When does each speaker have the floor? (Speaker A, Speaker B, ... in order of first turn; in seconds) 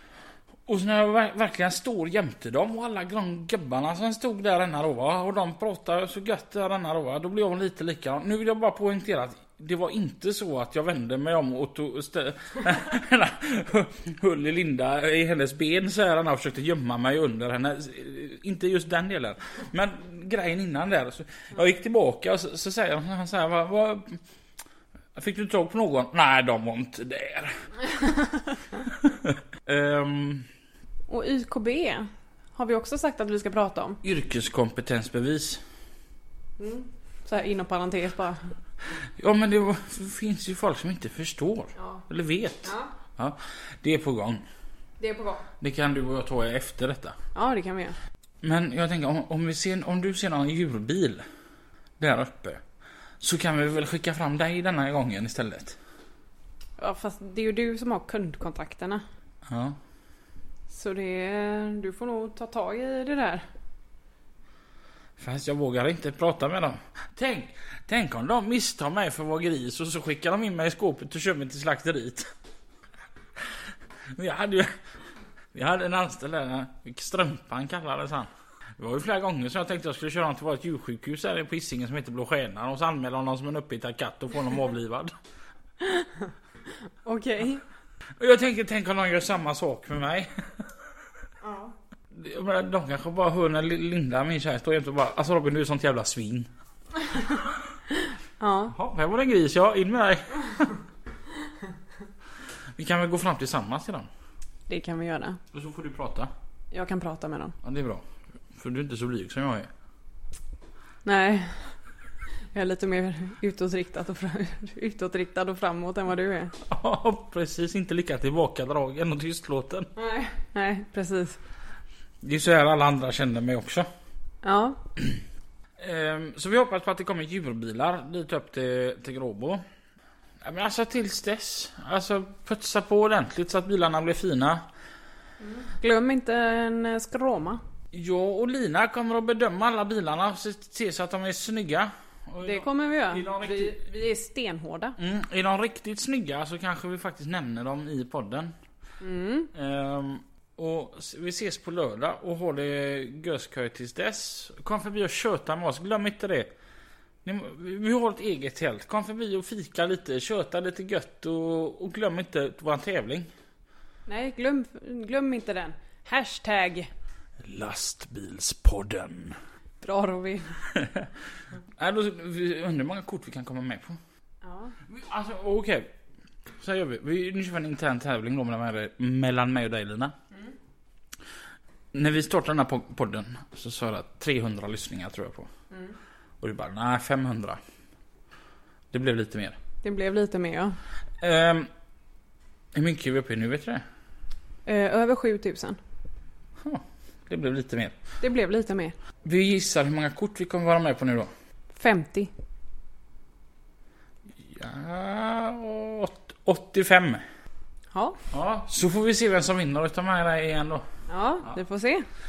Speaker A: 0.7-24.2, 25.1-27.6, 28.9-30.5, 34.0-35.6, 39.2-44.4, 45.6-47.1, 48.4-51.2, 52.0-52.6, 53.2-55.8, 59.5-59.8, 65.2-72.3, 74.1-74.7, 75.5-85.1, 88.2-90.7, 92.1-96.5, 98.7-100.8, 102.8-104.1, 105.5-106.3, 107.6-109.7, 116.6-119.9, 122.2-123.9, 125.8-129.6, 130.4-134.6, 137.9-143.9, 145.0-148.5, 149.5-156.5, 157.2-163.3, 167.4-169.4, 170.7-171.1, 171.8-174.0, 174.9-175.9, 176.6-180.1, 181.9-185.5, 186.4-187.6, 188.9-189.6, 191.2-191.7, 192.7-193.8, 196.6-198.0, 199.2-201.3, 204.4-207.2, 208.3-210.8
Speaker B: 31.1-34.0, 36.6-38.4, 41.8-42.0, 42.6-42.9, 45.0-45.5, 47.3-48.0, 56.8-59.0, 60.7-63.5, 85.8-86.3, 87.0-87.6, 91.4-91.7, 98.4-98.7, 104.7-105.4, 106.7-107.5, 111.0-111.7, 112.5-116.5, 120.0-121.4, 124.4-124.8, 135.4-137.6, 142.4-145.0, 149.0-149.5, 164.1-166.9, 169.8-170.6, 174.4-174.7, 185.7-185.9, 189.8-190.8, 194.7-195.8, 198.2-198.9, 201.7-202.3, 207.9-208.2, 211.1-212.1